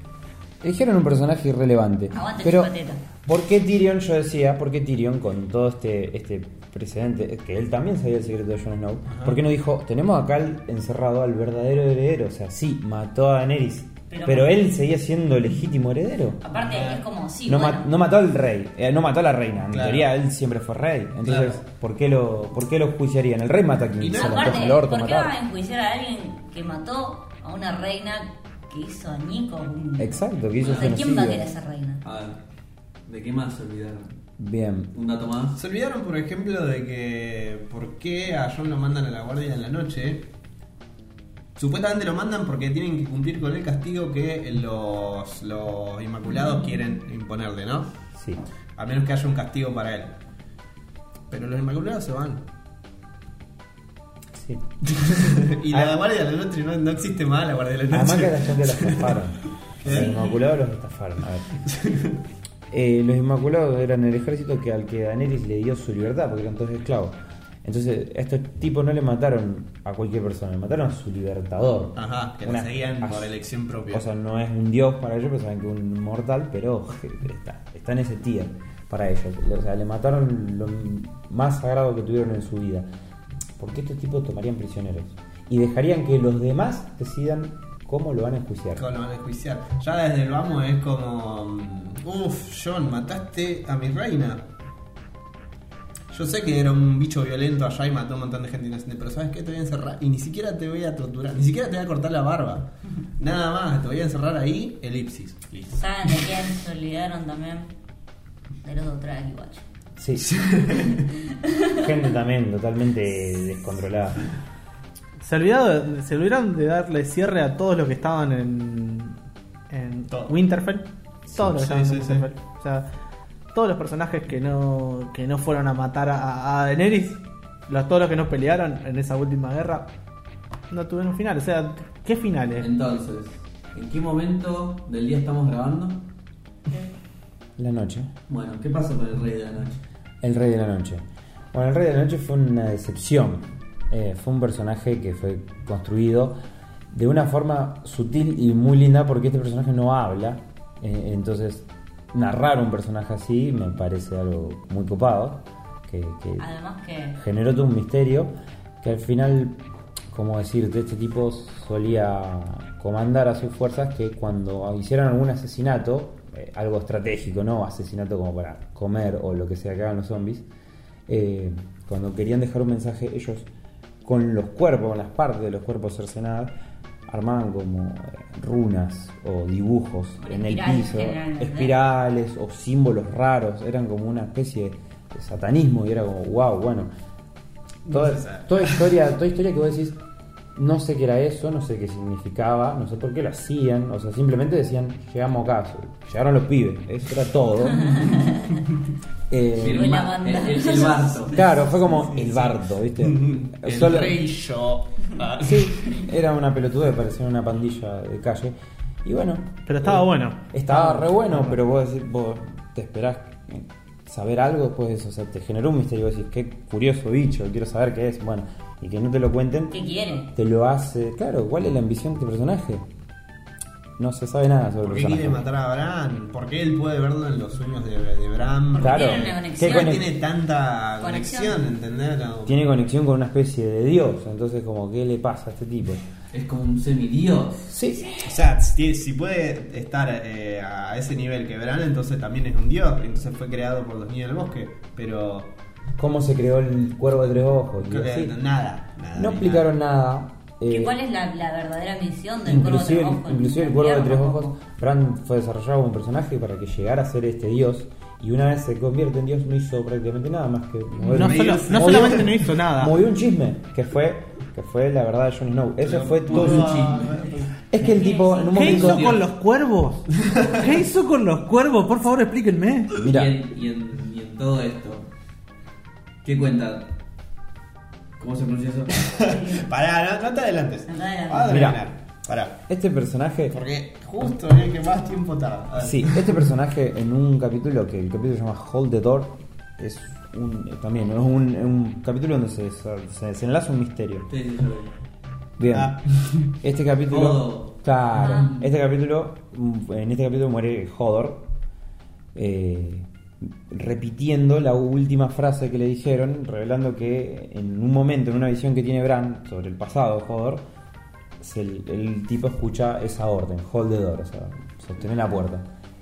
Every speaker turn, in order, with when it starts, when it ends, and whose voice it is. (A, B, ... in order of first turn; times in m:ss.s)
0:00.6-0:16.4 A
0:02.1-0:03.0 B
0:09.1-0:09.4 C
0:14.1-0:14.5 B
0:16.4-0:17.9 B
0:16.6-0:17.0 C
0:17.5-0:25.3 A
0:19.7-0:20.1 C
0:21.2-0:21.6 C
0:24.0-0:24.7 C
0:24.1-0:32.0 B
0:30.0-0:31.5 A
0:30.6-0:31.0 D
0:32.0-0:32.4 D
0:33.1-0:34.2 D
0:34.4-0:34.9 A
0:34.9-0:35.6 D
0:35.6-0:40.3 C
0:41.6-0:47.9 C
0:48.2-0:48.4 A
0:48.8-0:50.2 C
0:51.3-0:52.4 C
0:54.4-0:54.6 A
0:54.9-0:59.2 C
0:55.7-0:56.0 A
0:57.9-1:01.5 A
0:59.8-1:00.4 C
1:01.6-1:02.2 C
1:02.7-1:13.3 A
1:12.0-1:14.0 C
1:13.9-1:22.9 A
1:23.6-1:28.9 A
1:28.8-1:34.4 C
1:36.1-1:46.2 C
1:45.7-1:47.7 B
1:48.6-1:49.6 B
1:50.0-1:50.3 A
1:50.2-1:51.0 C
1:51.3-1:51.8 B
1:51.7-1:54.3 A
1:55.2-1:59.2 E
1:59.7-2:02.9 E
2:01.5-2:02.3 C
2:03.5-2:09.9 E
2:10.7-2:12.7 E
2:12.6-2:16.0 D
2:17.6-2:18.1 A
2:18.3-2:19.8 D
2:20.2-2:26.4 A
2:26.9-2:36.5 A
2:36.4-2:37.2 B
2:37.2-2:50.5 A
2:51.1-2:53.5 A
2:54.0-2:56.5 A
2:57.1-3:06.9 A
3:00.2-3:01.7 B
3:07.9-3:08.8 C
3:07.9-3:10.0 A
3:10.6-3:18.2 A
3:17.8-3:18.6 B
3:19.3-3:20.0 A
3:19.6-3:21.4 D
3:19.7-3:21.4 B
3:21.3-3:24.2 A
3:21.7-3:26.0 C
3:25.4-3:39.8 A
3:29.7-3:31.6 E
3:39.7-3:40.3 B
3:40.3-3:42.9 A
3:44.0-3:45.4 A
3:44.8-3:52.6 C
3:48.8-3:50.0 B
3:48.8-3:50.0 A
3:51.0-3:51.6 B
3:52.4-3:56.0 A
3:56.3-3:57.7 D
3:57.7-3:58.3 A
3:58.2-4:05.5 C
4:06.0-4:08.4 A
4:07.8-4:09.7 C
4:09.2-4:11.0 A
4:10.7-4:14.6 B
4:12.4-4:26.9 A
4:21.0-4:23.0 E
4:21.1-4:22.3 C
4:25.8-4:27.5 C
4:26.3-4:27.2 D
4:27.7-4:29.2 A
4:27.8-4:28.8 B
4:28.5-4:29.2 D
4:28.5-4:32.9 E
4:30.3-4:30.6 C
4:33.0-4:33.4 A
4:33.0-4:35.1 D
4:36.2-4:36.9 D
4:38.2-4:39.1 D
4:39.0-4:42.6 C
4:39.2-4:39.7 B
4:40.9-4:41.8 B
4:41.5-4:41.8 A
4:42.7-4:43.6 A
4:43.5-4:46.4 C
4:45.8-4:54.3 A
4:54.3-4:54.9 D
4:55.6-4:56.0 A
4:55.7-4:56.5 C
4:56.6-5:01.5 A
4:57.1-4:58.6 D
4:58.2-4:58.5 B
5:02.4-5:10.6 A
5:11.4-5:15.7 A